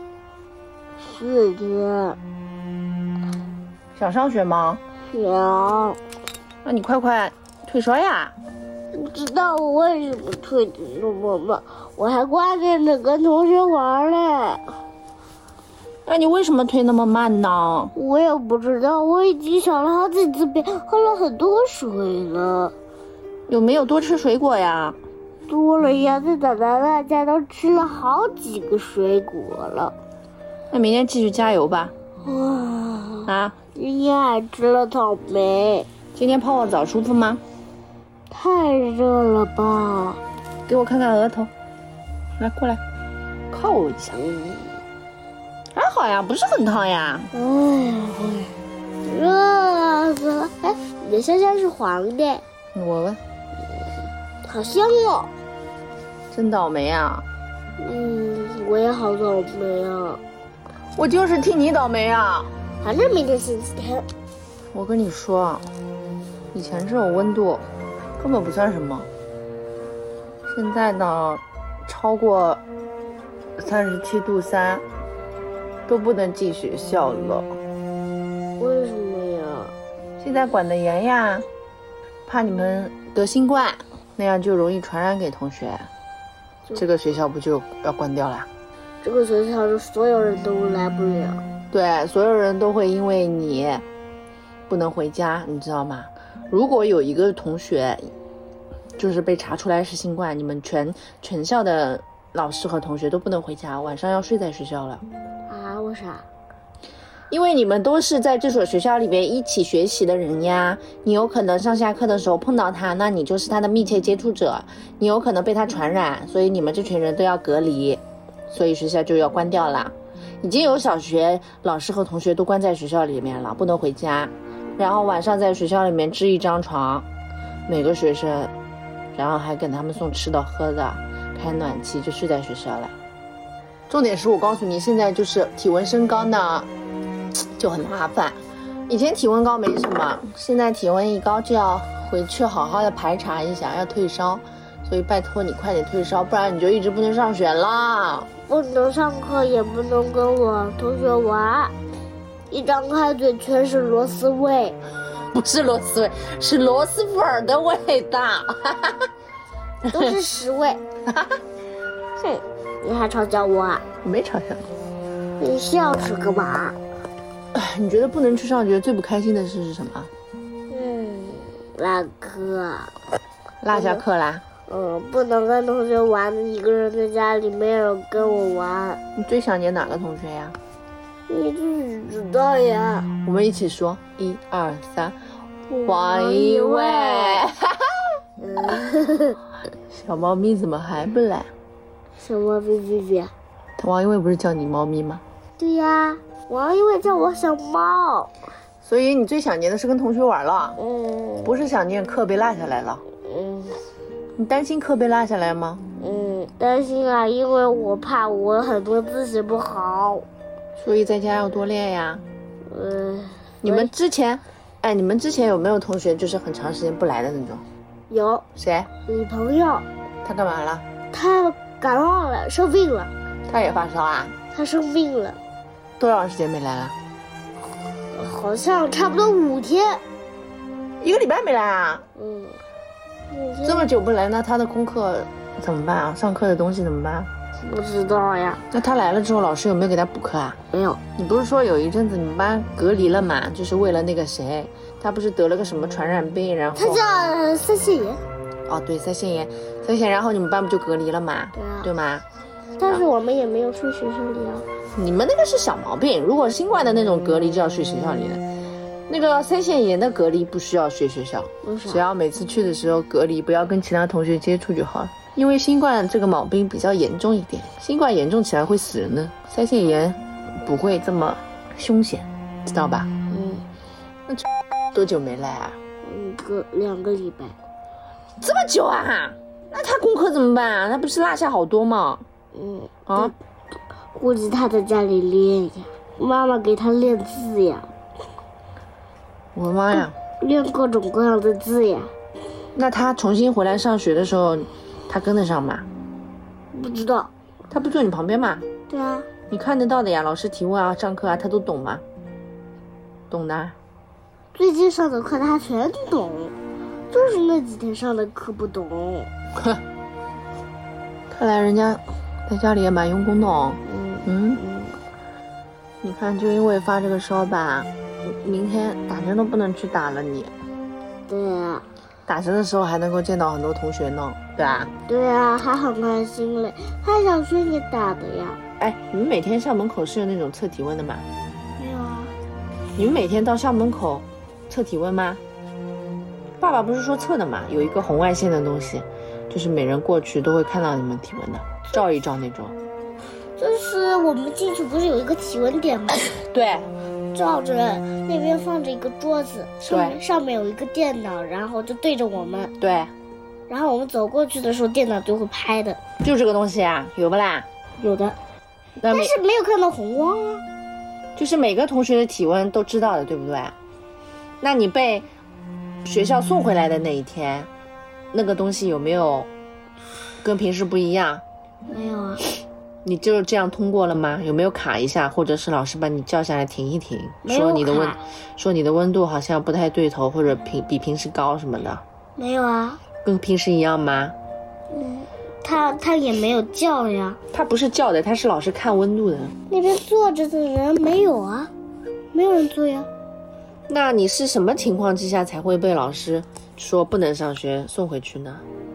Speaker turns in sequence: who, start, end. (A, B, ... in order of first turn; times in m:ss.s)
0:01.0-0:02.2 A
0:03.9-0:04.8 B
0:05.1-0:06.0 A
0:06.6-0:08.3 B
0:08.9-0:14.8 A
0:16.0-0:17.9 B
0:17.9-0:22.7 A
0:23.5-0:25.0 B
0:25.5-0:29.9 A
0:30.7-0:31.9 B
0:32.2-0:35.9 A
0:33.2-0:33.6 B
0:36.1-0:37.4 B
0:38.3-0:40.2 A
0:40.7-0:41.5 B
0:42.4-0:42.8 B
0:43.5-0:44.2 B
0:44.1-0:44.8 A
0:45.7-0:47.3 B
0:47.3-0:52.4 A
0:52.7-0:53.2 B
0:54.4-0:55.3 A
0:56.3-0:57.2 B
0:57.8-1:00.2 A
1:01.0-1:02.5 B
1:02.8-1:04.1 A
1:04.7-1:05.6 B
1:06.5-1:07.6 B
1:08.2-1:09.1 B
1:10.5-1:12.6 B
1:13.6-1:14.8 B
1:15.9-1:17.5 B
1:18.6-1:19.7 A
1:20.2-1:21.5 B
1:22.2-1:25.9 B
1:26.8-1:28.5 B
1:29.0-1:31.4 A
1:31.7-1:33.8 B
1:34.7-1:38.1 B
1:39.0-1:45.0 B
1:45.5-1:46.3 A
1:47.3-2:07.1 B
2:07.7-2:08.5 B
2:09.1-2:12.9 B
2:13.9-2:16.7 B
2:17.6-2:28.3 B
2:28.5-2:31.7 A
2:32.5-2:34.8 A
2:35.1-2:39.1 B
2:39.9-2:40.8 A
2:41.1-2:41.3 B
2:42.2-2:43.8 A
2:44.0-2:44.6 B
2:45.4-2:46.8 A
2:47.5-2:50.1 B
2:50.7-2:53.0 A
2:53.6-2:54.4 B
2:53.7-2:54.0 A
2:54.7-2:59.0 A
2:59.1-3:00.6 B
3:01.3-3:03.1 A
3:03.2-3:05.2 B
3:05.7-3:07.4 A
3:05.8-3:07.9 B
3:08.4-3:09.4 A
3:09.9-3:11.5 B
3:12.2-3:13.3 A
3:13.8-3:15.2 B
3:15.6-3:18.4 A
3:18.8-3:20.8 B
3:20.8-3:21.5 A
3:21.4-3:23.0 B
3:23.2-3:23.8 A
3:24.4-3:25.8 B
3:26.0-3:30.3 A
3:30.8-3:32.2 B
3:32.7-3:33.9 A
3:33.6-3:37.6 B
3:38.1-3:38.4 A
3:38.6-3:38.9 B
3:39.0-3:39.8 A
3:40.2-3:40.8 B
3:41.1-3:43.1 A
3:43.5-3:44.3 B
3:44.5-3:45.4 A
3:46.0-3:46.9 B
3:48.1-3:50.0 A
3:51.0-3:52.0 B
3:52.2-3:52.6 A
3:53.3-3:53.9 A
3:53.6-3:57.3 B
3:57.6-3:58.6 A
3:58.7-4:00.6 B
4:00.7-4:01.0 A
4:01.2-4:07.0 B
4:06.8-4:08.2 A
4:08.7-4:12.2 B
4:11.5-4:11.9 A
4:12.8-4:14.7 A
4:15.0-4:18.4 B
4:19.1-4:33.1 B
4:21.6-4:22.0 A
4:33.3-4:33.6 A
4:34.3-4:35.8 B
4:36.0-4:37.6 A
4:38.4-4:42.2 B
4:42.5-4:43.3 A
4:43.1-4:43.3 B
4:44.1-4:47.9 A
4:49.5-4:50.2 B
4:49.9-4:52.1 A
4:52.7-4:55.8 B
4:56.7-4:57.3 A
4:57.7-4:58.6 B
4:58.9-4:59.3 A
4:59.5-5:02.0 B
5:03.3-5:03.8 B
5:04.5-5:06.5 A
5:07.1-5:09.3 A
5:11.3-5:14.6 B
5:13.9-5:15.0 A
5:16.0-5:20.5 B
5:21.3-5:21.9 A
5:22.3-5:24.9 B
5:25.1-5:28.6 A
5:28.8-5:31.3 B
5:31.8-5:32.3 A
5:33.0-5:35.4 B
5:36.6-5:42.7 B
5:43.6-5:46.3 A
5:46.3-5:46.9 B
5:47.3-5:52.7 A
5:49.8-5:50.2 B
5:52.8-5:53.1 B
5:53.7-5:56.0 A
5:56.2-5:57.6 B
5:58.0-5:58.4 A
5:59.0-5:59.3 B
5:59.1-6:00.6 A
6:01.4-6:03.7 B
6:04.6-6:05.3 B
6:06.0-6:07.7 B
6:08.3-6:09.5 B
6:10.4-6:11.4 B
6:11.9-6:12.4 A
6:13.0-6:22.0 B
6:17.4-6:18.2 A
6:22.4-6:23.0 A
6:23.2-6:24.4 B
6:24.9-6:27.4 A
6:27.5-6:29.5 B
6:29.7-6:31.7 A
6:32.3-6:33.1 A
6:33.9-6:38.6 B